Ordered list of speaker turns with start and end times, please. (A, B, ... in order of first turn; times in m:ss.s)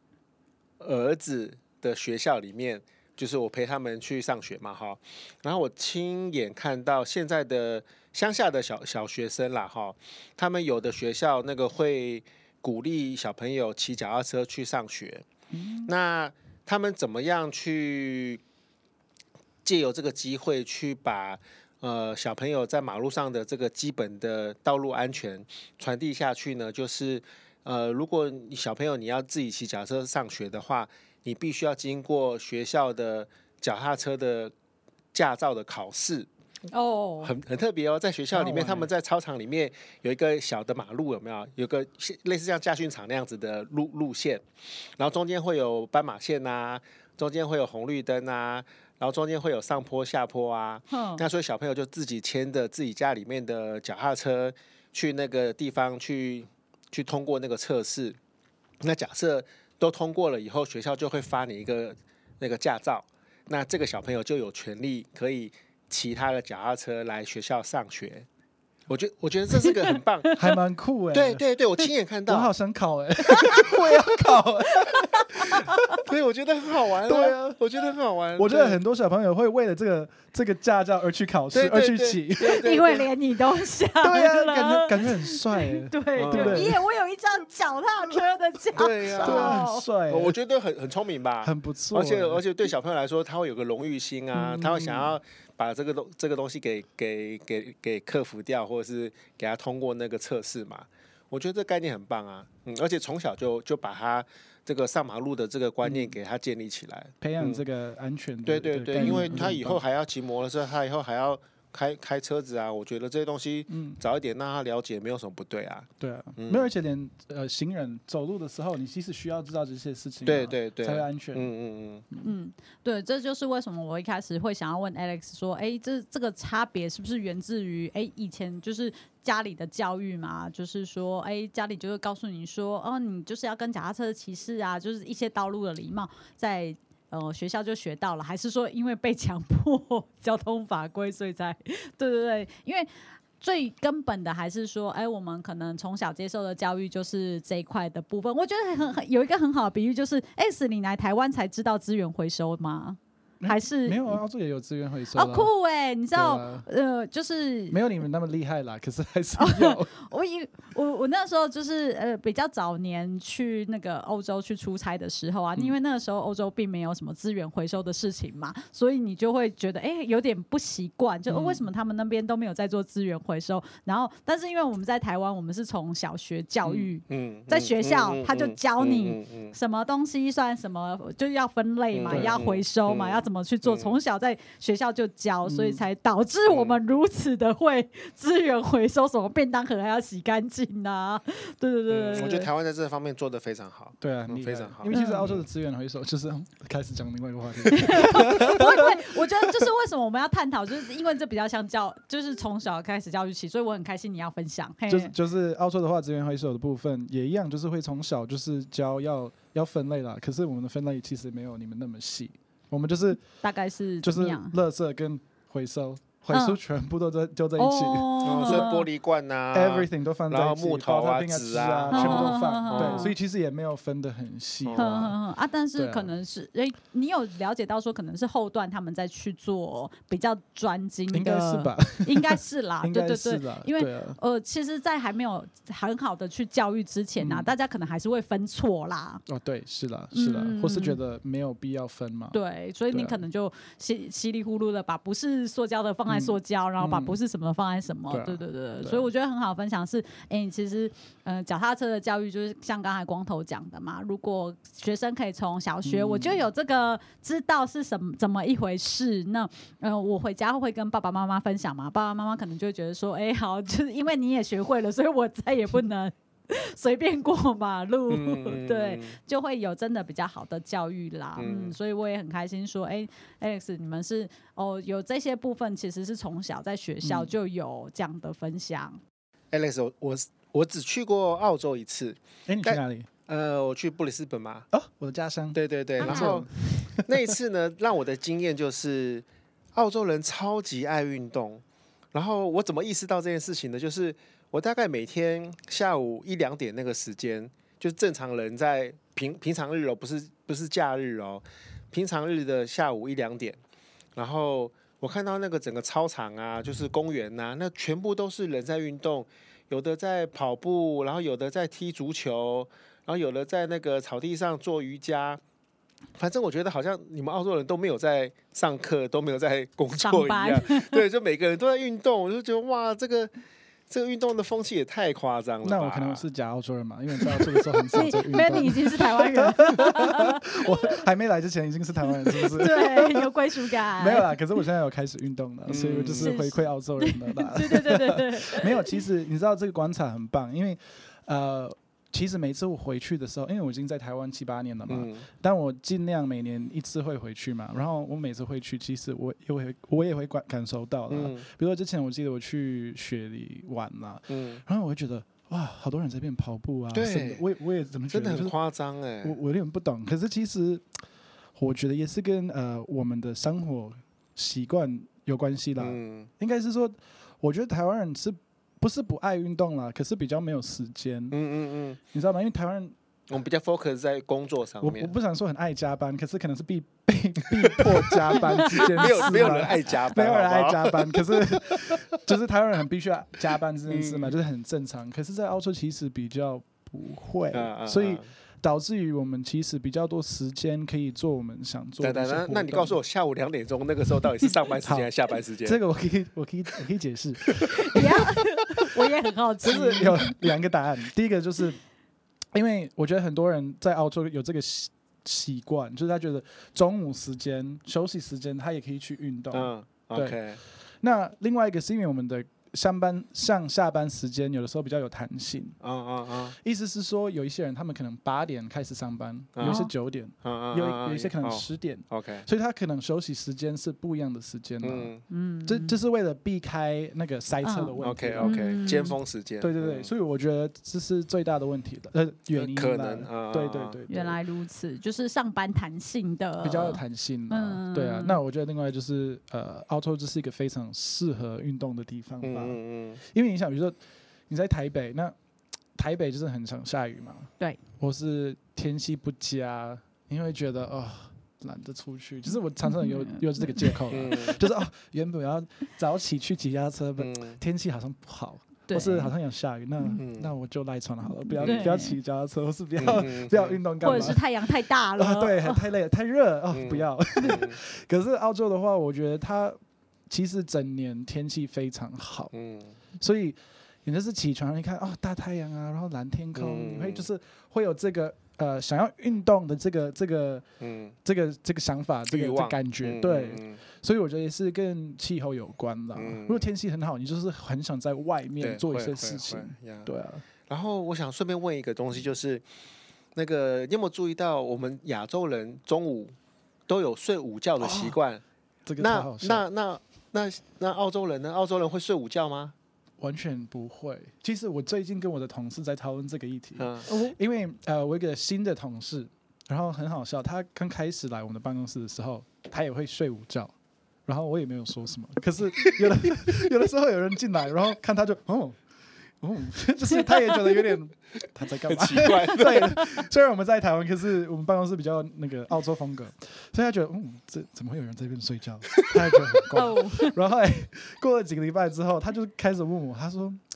0:00.8-0:15.2 A
0:15.5-0:15.9 B
0:15.9-0:18.4 A
0:19.6-0:34.5 A
0:35.1-0:36.3 A
0:36.7-0:37.3 C
0:37.2-0:44.4 A
0:38.3-0:38.9 B
0:45.0-0:58.2 A
0:50.9-0:51.2 C
0:58.8-1:08.3 A
1:08.9-1:10.3 A
1:09.6-1:10.5 C
1:10.4-1:11.4 B
1:11.1-1:12.5 A
1:12.3-1:16.0 B
1:13.4-1:13.7 C
1:13.4-1:13.9 A
1:14.7-1:16.0 C
1:16.0-1:18.8 A
1:17.0-1:17.6 B
1:18.4-1:22.6 B
1:21.5-1:23.1 A
1:22.4-1:29.9 C
1:24.0-1:26.8 B
1:26.2-1:26.7 A
1:28.8-1:47.6 A
1:29.2-1:30.4 B
1:31.4-1:32.4 B
1:34.3-1:35.2 B
1:45.8-1:46.2 B
1:47.2-1:49.8 B
1:48.4-1:56.7 A
1:49.0-1:49.4 C
1:53.7-1:54.0 B
1:56.0-2:01.5 B
2:00.2-2:02.1 A
2:02.2-2:22.9 C
2:23.4-2:34.2 C
2:33.4-2:35.5 B
2:35.1-2:37.8 C
2:36.1-2:36.6 B
2:37.7-2:39.9 B
2:39.4-3:12.5 C
2:51.3-2:51.6 B
2:56.6-2:59.6 A
3:01.9-3:04.0 A
3:02.1-3:02.4 B
3:05.4-3:05.8 B
3:06.5-3:06.8 A
3:11.9-3:15.4 A
3:14.0-3:19.2 B
3:14.9-3:15.3 C
3:17.7-3:25.1 C
3:24.9-3:33.2 B
3:33.4-3:34.6 C
3:34.0-3:38.7 B
3:36.3-3:36.6 C
3:37.6-3:38.9 C
3:38.2-3:43.1 A
3:39.5-3:45.2 B
3:41.9-3:43.1 C
3:44.6-3:45.1 A
3:44.8-3:59.2 C
3:45.8-3:46.1 B
3:51.1-3:54.2 B
3:57.2-3:57.5 B
3:59.3-4:02.4 B
4:00.1-4:01.0 C
4:02.3-4:39.0 C
4:02.9-4:03.2 B
4:06.1-4:07.2 B
4:08.1-4:09.1 B
4:15.8-4:16.5 B
4:28.1-4:29.2 A
4:31.4-4:31.8 A
4:37.0-4:37.3 B
4:39.5-4:44.7 A
4:42.5-4:43.1 B
4:44.7-4:47.4 B
4:45.5-4:46.5 A
4:46.0-4:46.4 C
4:47.0-4:51.6 A
4:52.1-5:03.6 A
5:04.2-5:15.4 A
5:16.2-5:23.3 A
5:20.0-5:21.0 C
5:23.9-5:26.2 A
5:25.6-5:33.3 B
5:27.9-5:30.4 C
5:32.3-5:34.4 C
5:34.0-5:58.5 B
5:35.7-5:36.4 A
5:36.2-5:39.0 C
5:44.9-5:45.3 A
5:51.1-5:51.5 A
5:54.3-5:54.6 A
5:56.9-5:57.4 A
5:58.1-5:59.4 A
5:59.2-6:00.9 B
6:01.6-6:11.4 B
6:05.8-6:06.3 A
6:11.3-6:12.0 A
6:12.1-6:13.0 B
6:13.3-6:15.1 A
6:14.8-6:33.0 B
6:17.7-6:22.2 A
6:23.9-6:24.4 A
6:27.5-6:28.3 A
6:32.0-6:35.8 A
6:34.8-6:35.1 B
6:35.6-6:39.1 B
6:37.8-6:40.4 C
6:39.6-6:41.8 B
6:42.5-6:50.4 B
6:49.5-6:50.6 A
6:51.0-6:55.8 B
6:55.8-6:56.6 A
6:56.6-7:05.1 B
6:59.6-6:59.9 A
6:59.6-6:59.9 C
7:00.4-7:02.5 A
7:04.8-7:05.2 A
7:05.3-7:06.0 C
7:05.6-7:08.6 B
7:07.6-7:09.2 C
7:08.0-7:10.1 A
7:09.6-7:14.4 B
7:12.5-7:14.0 A
7:14.1-7:18.4 C
7:16.6-7:24.0 B
7:22.4-7:23.2 A
7:24.5-7:25.4 B
7:26.0-7:44.5 B
7:32.8-7:34.0 C
7:34.1-7:34.6 A
7:37.2-7:37.6 A
7:38.9-7:39.3 C
7:40.1-7:40.5 A
7:41.5-7:42.2 C
7:41.6-7:42.0 A
7:43.0-7:44.4 A
7:44.0-7:45.9 C
7:45.1-7:52.5 B
7:46.7-7:47.8 A
7:52.5-7:53.0 A
7:53.2-8:00.6 B
7:56.6-7:57.3 A
8:00.8-8:01.2 A
8:01.2-8:10.4 B
8:02.3-8:03.8 A
8:06.1-8:06.6 A
8:08.6-8:10.1 A
8:10.7-8:12.6 A
8:13.4-8:16.3 A
8:16.9-8:18.4 A
8:17.8-8:18.2 B
8:18.9-8:19.6 B
8:19.0-8:22.7 A
8:23.2-8:33.7 B
8:26.8-8:27.1 A
8:27.1-8:27.4 C
8:34.3-8:38.8 B
8:39.4-8:53.6 B
8:41.9-8:43.2 A
8:49.0-8:49.6 A
8:49.7-8:50.4 C